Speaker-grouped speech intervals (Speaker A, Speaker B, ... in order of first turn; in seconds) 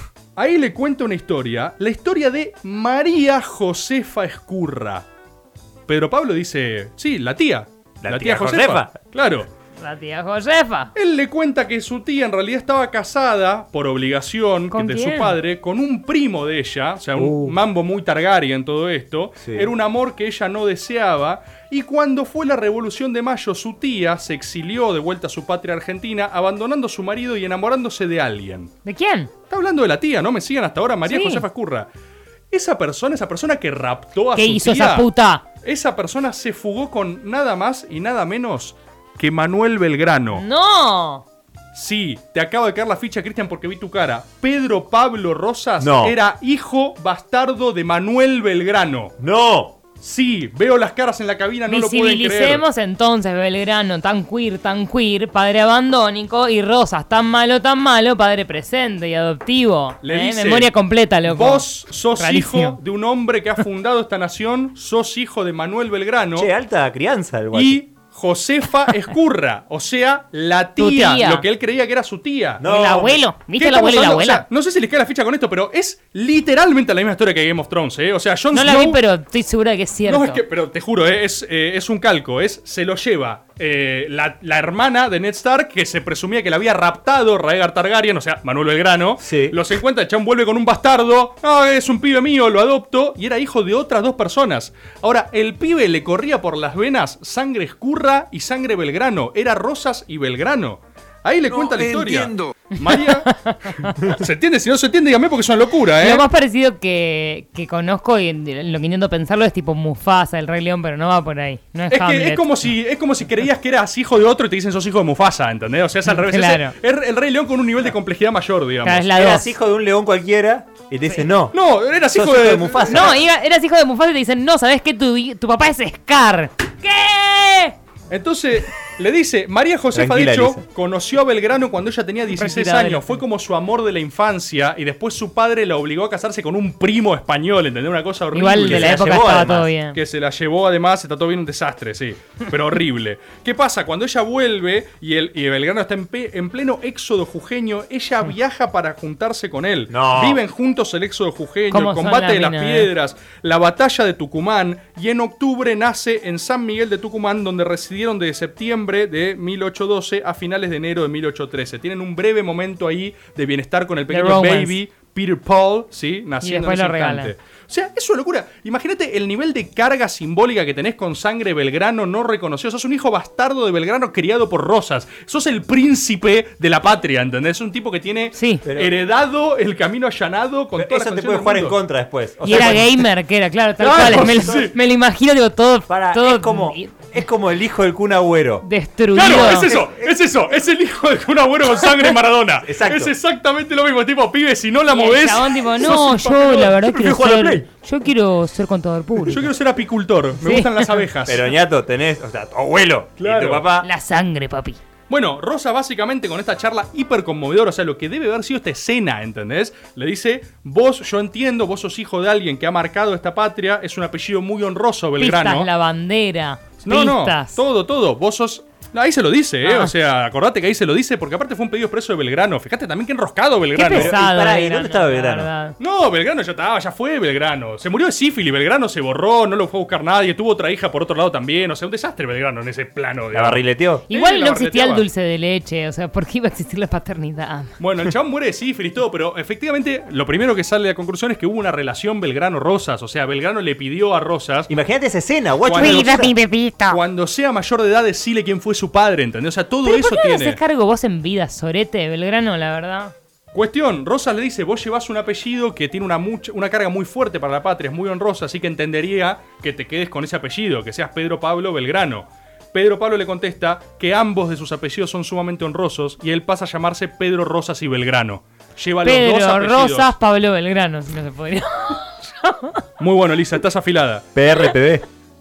Speaker A: 0.4-5.0, 5.9-9.5, 10.9-28.7, 29.5-31.9, 32.5-35.1, 35.6-40.5, 41.7-49.1, 50.0-52.6, 60.0-60.7, 61.3-66.5, 67.5-72.7, 73.5-79.0, 80.1-103.3, 104.1-106.2, 111.9-119.1, 121.5-123.1, 128.1-139.1, 139.9-181.8, 183.8-184.7, 189.2-197.3, 199.3-201.5, 203.2-203.7, 205.1-215.7, 216.8-224.1, 225.8-235.1, 237.8-244.7, 245.7-246.3, 246.9-250.6, 253.5-270.1, 273.0-274.2
Speaker B: 8.0-9.0, 17.2-17.6, 19.4-19.7, 45.8-46.2, 49.2-49.8, 66.4-67.8, 72.6-73.2, 89.2-89.6, 101.6-102.3, 119.2-121.5, 122.1-123.2, 129.9-130.6, 138.6-139.7, 149.9-150.4, 178.7-178.9, 180.8-182.9, 184.3-184.6, 185.9-188.7, 189.2-190.1, 192.6-193.1, 197.0-197.6, 201.3-203.9, 223.9-225.5, 233.3-234.0, 244.7-246.3, 274.4-275.0
Speaker C: 9.8-10.9, 14.7-15.4, 28.9-29.3, 31.1-31.4, 34.4-35.4, 40.3-41.2, 51.7-61.6, 62.2-62.8, 70.8-71.4, 72.7-74.5, 78.5-80.4, 102.9-103.9, 106.0-112.5, 116.1-116.7, 118.8-119.5, 122.9-127.8, 132.3-133.2, 138.3-140.0, 151.7-152.9, 164.1-164.8, 166.4-167.3, 178.3-178.6, 182.4-187.1, 188.7-189.7, 194.9-199.4, 200.4-201.0, 203.8-204.8, 215.2-217.6, 219.7-219.9, 223.8-225.8, 234.1-237.7, 245.8-247.0, 249.8-253.1, 269.1-272.8